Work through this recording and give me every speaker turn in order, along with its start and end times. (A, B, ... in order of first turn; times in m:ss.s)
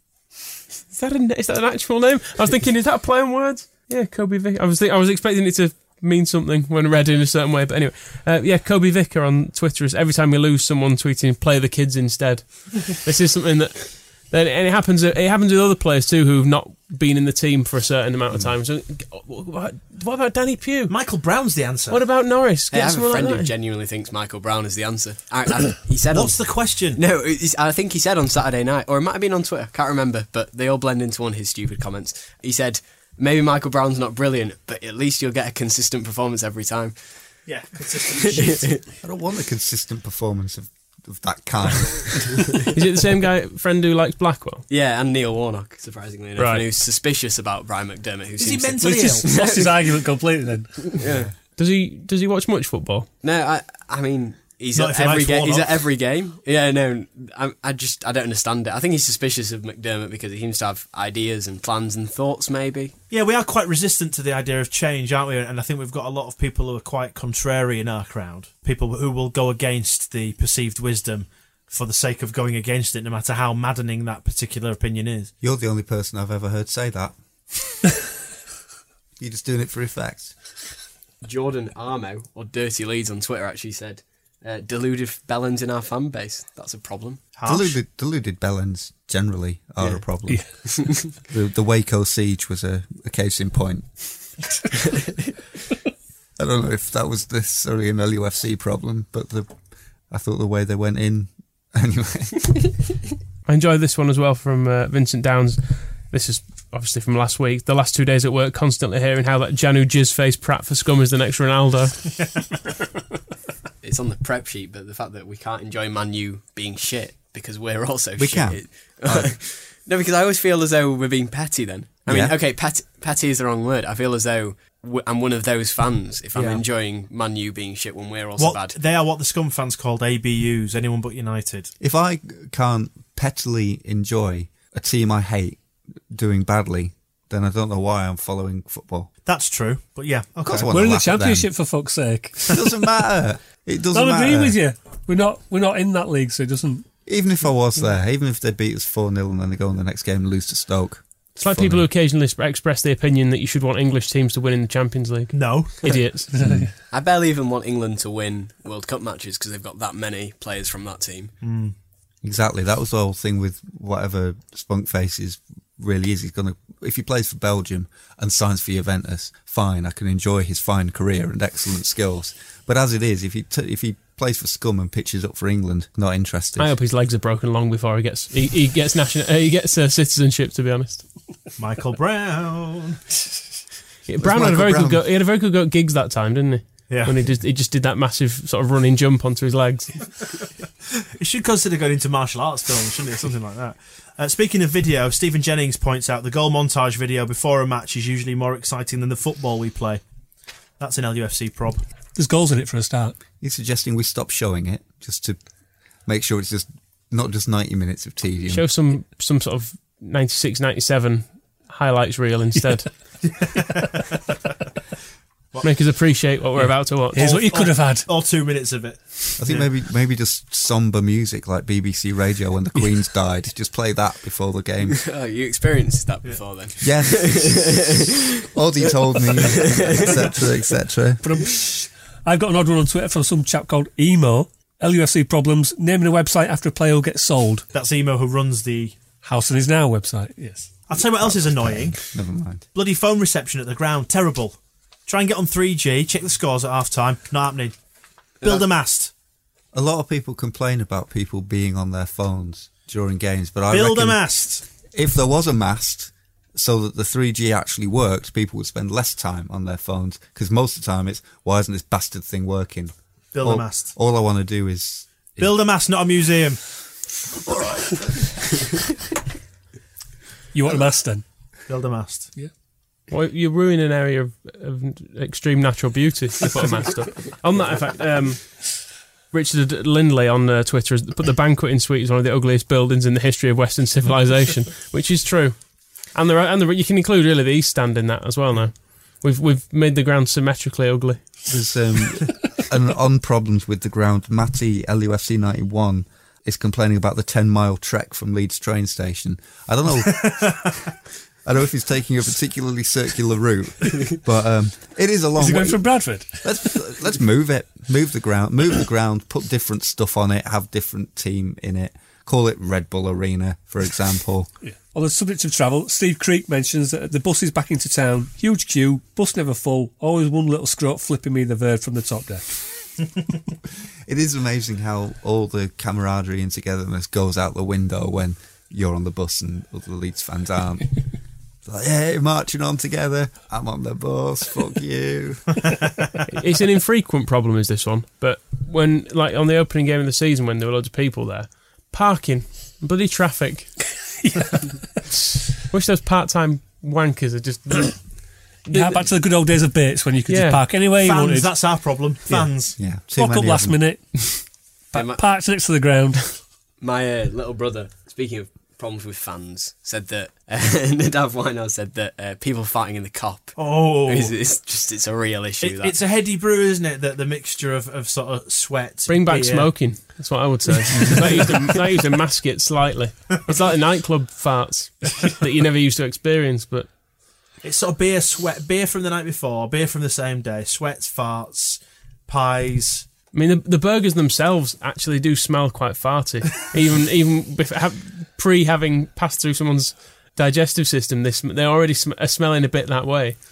0:00.9-0:20.9 A
0:20.9-0:22.0 B
0:21.9-0:23.5 A
0:22.7-0:26.4 C
0:26.1-0:27.0 B
0:26.9-0:37.2 C
0:37.5-0:38.8 B
0:38.2-0:38.8 C
0:39.0-0:42.4 D
0:42.7-0:44.6 A
0:44.7-0:50.0 C
0:46.4-0:46.6 A
0:48.4-0:49.4 B
0:48.8-0:51.0 E
0:50.8-0:51.3 C
0:51.6-0:53.1 A
0:53.2-1:03.0 C
0:54.8-0:55.8 B
1:03.1-1:15.3 B
1:15.4-1:17.8 D
1:19.2-1:20.3 D
1:21.2-1:27.2 C
1:27.4-1:27.8 B
1:27.4-1:33.9 D
1:36.4-1:39.5 D
1:40.1-1:42.6 D
1:43.5-1:52.2 A
1:53.8-2:08.8 C
1:58.2-1:59.4 D
2:02.1-2:02.4 D
2:08.4-2:11.7 B
2:11.8-2:19.1 D
2:19.2-2:20.7 B
2:20.4-2:21.5 D
2:20.7-2:22.5 E
2:22.5-2:24.6 D
2:23.9-2:26.9 E
2:27.1-2:31.9 D
2:31.4-2:36.3 A
2:35.3-2:36.0 B
2:36.3-2:36.7 E
2:36.9-2:41.4 C
2:41.4-2:41.8 B
2:42.2-2:56.7 D
2:56.6-3:01.0 A
3:01.6-3:03.0 B
3:04.1-3:10.1 A
3:04.2-3:05.0 D
3:06.9-3:07.2 B
3:11.2-3:20.0 B
3:20.8-3:21.8 B
3:22.2-3:23.2 E
3:23.4-3:25.4 D
3:26.1-3:28.7 D
3:28.5-3:32.9 A
3:33.2-3:34.1 B
3:35.6-3:37.2 A
3:36.6-3:38.1 E
3:37.2-3:39.7 B
3:39.4-3:45.0 D
3:44.9-3:48.1 C
3:46.8-3:51.2 D
3:49.3-3:50.2 C
3:51.2-3:57.7 E
3:57.7-3:59.0 B
3:59.2-4:00.8 E
4:00.9-4:02.0 B
4:00.9-4:02.7 D
4:02.7-4:07.8 B
4:08.4-4:08.7 C
4:08.4-4:09.1 B
4:09.7-4:14.2 D
4:13.7-4:14.6 B
4:14.9-4:25.6 D
4:23.3-4:23.9 B
4:25.4-4:26.6 B
4:27.5-4:28.0 D
4:30.5-4:31.2 E
4:31.7-4:32.3 B
4:33.1-4:51.4 A
4:51.5-5:00.7 D
5:00.2-5:00.6 B
5:01.4-5:14.5 D
5:05.4-5:06.9 E
5:14.6-5:22.6 E
5:24.1-5:31.0 D
5:31.6-5:35.5 D
5:36.3-5:43.7 A
5:44.2-5:44.5 E
5:45.7-5:49.1 A
5:48.7-5:52.5 E
5:50.3-5:50.7 A
5:51.0-5:52.8 B
5:52.8-5:53.8 D
5:53.1-5:56.4 E
5:54.9-5:55.2 C
5:56.8-6:06.0 C
6:03.6-6:04.4 B
6:05.6-6:09.9 B
6:09.1-6:16.9 A
6:10.9-6:11.6 B
6:17.6-6:23.1 B
6:23.3-6:33.4 A